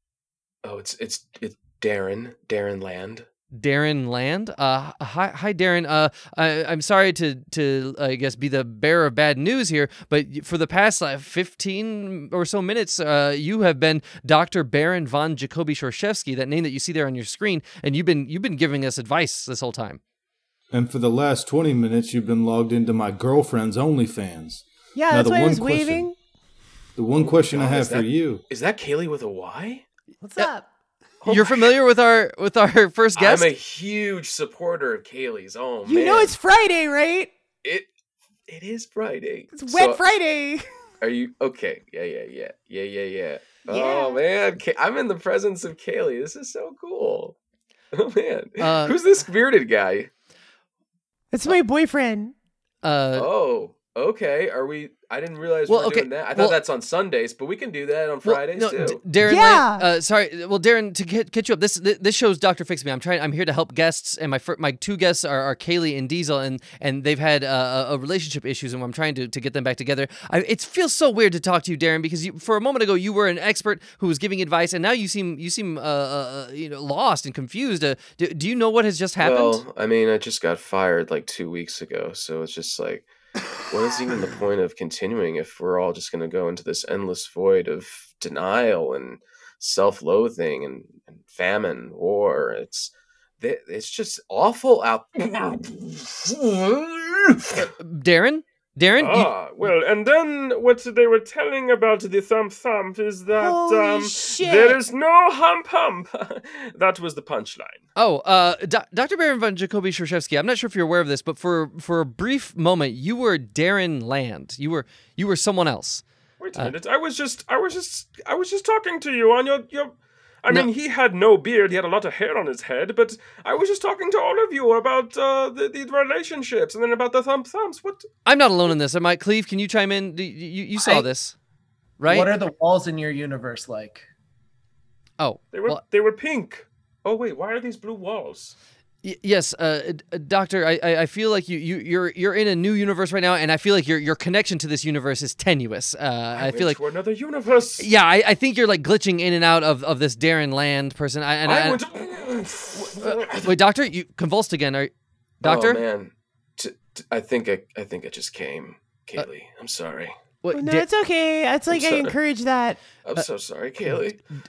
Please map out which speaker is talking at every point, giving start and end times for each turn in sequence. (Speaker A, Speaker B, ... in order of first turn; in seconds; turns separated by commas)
Speaker A: 0.6-3.2, Speaker B: 3.5-20.0, Speaker C: 20.7-26.1, Speaker D: 24.9-26.1, Speaker C: 26.9-28.4, Speaker A: 27.2-29.8, Speaker D: 30.2-30.7, Speaker A: 31.2-31.7, Speaker B: 31.2-33.5, Speaker A: 33.1-36.3, Speaker D: 35.8-37.3, Speaker A: 37.6-37.9, Speaker A: 38.5-40.0, Speaker D: 39.5-40.7, Speaker A: 41.0-47.4, Speaker D: 43.7-44.2, Speaker A: 47.9-50.1, Speaker B: 48.6-49.0, Speaker D: 51.3-52.3, Speaker B: 52.8-53.3, Speaker A: 53.1-59.0, Speaker B: 55.7-56.6, Speaker B: 58.2-79.6, Speaker D: 59.2-59.9, Speaker A: 79.2-83.1, Speaker A: 83.7-97.6, Speaker B: 97.6-99.3, Speaker E: 99.0-107.8, Speaker D: 103.3-104.8, Speaker B: 108.0-116.0, Speaker E: 116.4-128.1, Speaker B: 128.2-131.3, Speaker F: 130.8-131.1, Speaker B: 132.0-132.3, Speaker F: 132.0-134.1, Speaker B: 135.2-135.8, Speaker E: 135.5-138.5, Speaker B: 139.0-146.8, Speaker E: 146.3-147.9, Speaker B: 147.8-151.8, Speaker E: 151.5-152.7, Speaker A: 151.9-152.5, Speaker B: 152.9-154.9, Speaker A: 155.4-160.2, Speaker B: 155.4-155.8, Speaker B: 160.4-160.8, Speaker D: 160.5-162.8, Speaker A: 161.7-162.1, Speaker A: 163.0-164.2